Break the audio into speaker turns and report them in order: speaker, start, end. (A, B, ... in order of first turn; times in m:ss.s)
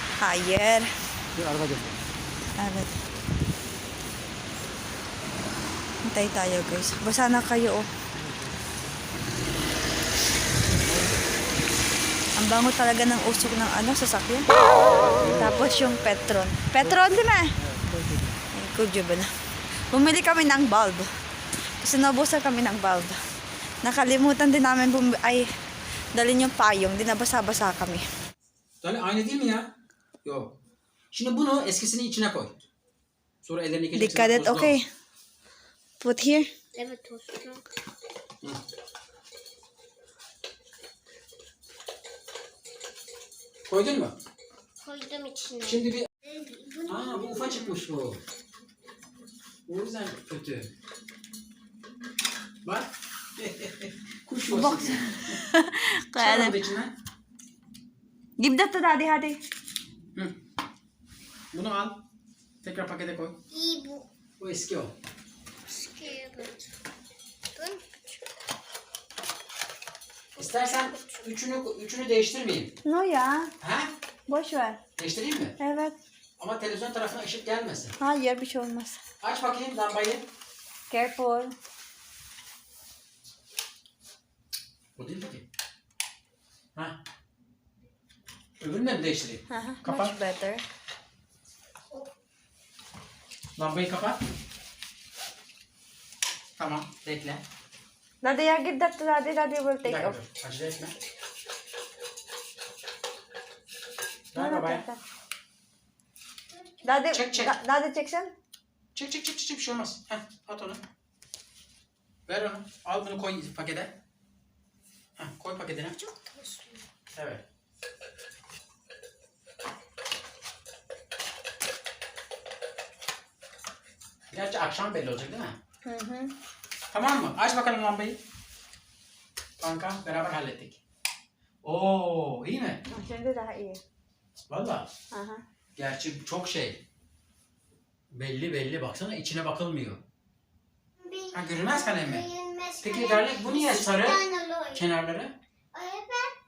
0:00.2-0:00.9 A
0:01.3-0:02.0 B
0:02.6-0:03.0 A
0:06.0-0:07.9 A
0:12.4-0:14.5 A
0:15.2-0:17.5 A
0:17.8-0:18.3 B
0:18.5-0:19.3 A
0:19.9-0:21.1 A
0:21.8-0:23.2 A
0:23.8-0:25.5 A
0:26.1-0:28.0 A
0:28.8-0:29.7 B
0:30.2-0:30.5 B
0:31.1-0:32.5 B
0:33.4-0:34.8 B
0:33.9-0:34.9 A
0:36.0-0:36.5 A
0:36.7-0:37.6 C
0:43.7-0:44.2 B
0:44.8-0:47.6 C
0:45.6-0:46.1 B
0:46.9-0:48.2 B
0:49.7-0:50.7 B
0:52.6-0:55.4 B
0:54.5-0:56.6 A
0:56.2-0:56.9 B
0:58.4-0:59.4 A
1:01.5-1:02.0 B
1:02.6-1:03.4 B
1:03.5-1:04.1 C
1:04.4-1:04.9 B
1:05.7-1:06.7 C
1:07.5-1:08.2 C
1:10.4-1:11.2 C
1:10.4-1:12.8 B
1:12.8-1:13.5 A
1:13.6-1:13.9 B
1:14.3-1:14.8 A
1:15.0-1:15.6 B
1:15.6-1:16.0 A
1:16.4-1:18.0 B
1:18.0-1:19.0 A
1:19.2-1:20.2 B
1:20.9-1:21.5 A
1:25.0-1:25.4 B
1:28.6-1:30.1 B
1:29.5-1:30.6 A
1:33.6-1:34.2 B
1:36.6-1:37.4 B
1:38.2-1:40.1 A
1:39.8-1:41.0 B
1:44.3-1:44.8 B
1:44.3-1:45.0 A
1:46.5-1:46.8 C
1:46.8-1:48.3 A
1:47.1-1:47.6 B
1:48.9-1:50.8 B
1:52.3-1:54.0 B
1:55.2-1:56.0 B
1:56.0-1:56.9 C
1:57.1-1:57.4 B
2:04.3-2:05.6 B
2:05.8-2:06.3 A
2:06.9-2:08.2 B
2:09.6-2:10.8 B
2:11.6-2:12.8 B
2:12.9-2:13.8 A
2:14.5-2:14.9 B
2:15.1-2:15.4 A
2:15.8-2:16.8 B
2:18.1-2:20.0 B
2:21.0-2:24.8 C
2:21.3-2:22.3 B
2:22.8-2:25.3 B
2:25.7-2:26.4 C